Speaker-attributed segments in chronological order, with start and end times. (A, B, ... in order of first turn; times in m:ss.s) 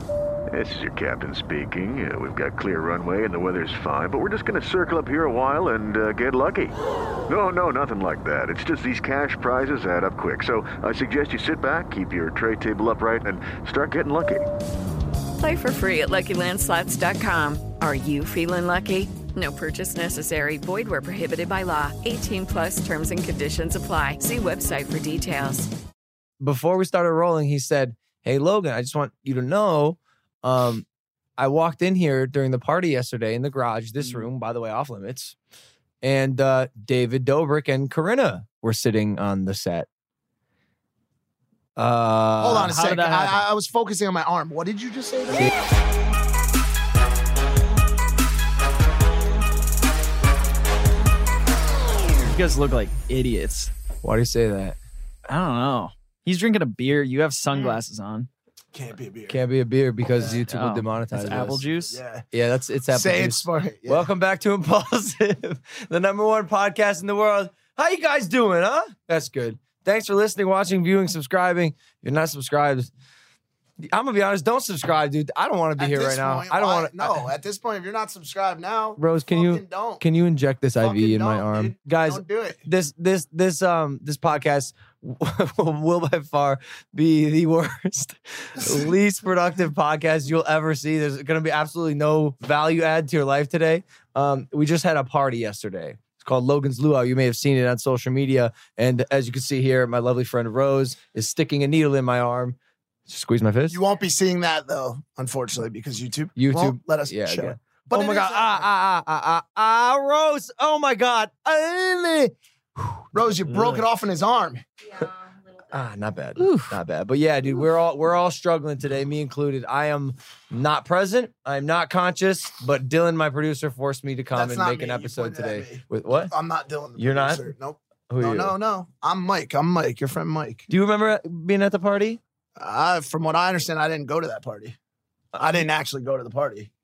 0:00.5-0:06.8 A
0:07.3-0:14.5 A
0:15.4-0:25.7 B
0:26.4-0:30.8 C
0:31.4-0:35.3 C
0:34.0-0:34.3 D
0:36.0-0:39.9 C
0:41.8-0:42.8 C
0:42.4-0:45.5 E
0:42.6-0:43.4 D
0:52.2-0:53.7 D
0:54.0-0:54.8 C
0:55.3-0:58.3 D
0:58.7-0:59.4 E
0:59.3-1:01.6 C
1:00.5-1:02.0 D
1:01.9-1:02.2 E
1:02.3-1:12.9 C
1:02.9-1:04.0 E
1:13.8-1:17.2 C
1:15.8-1:20.0 E
1:19.0-1:43.8 C
1:20.8-1:22.6 E
1:43.7-1:48.7 E
1:46.4-1:53.8 C
1:53.1-1:54.6 E
1:55.7-2:06.3 C
1:56.4-1:56.8 D
2:04.3-2:10.7 E
2:07.0-2:07.5 C
2:08.1-2:08.5 C
2:10.7-2:12.2 C
2:12.6-2:14.8 E
2:15.3-2:16.7 E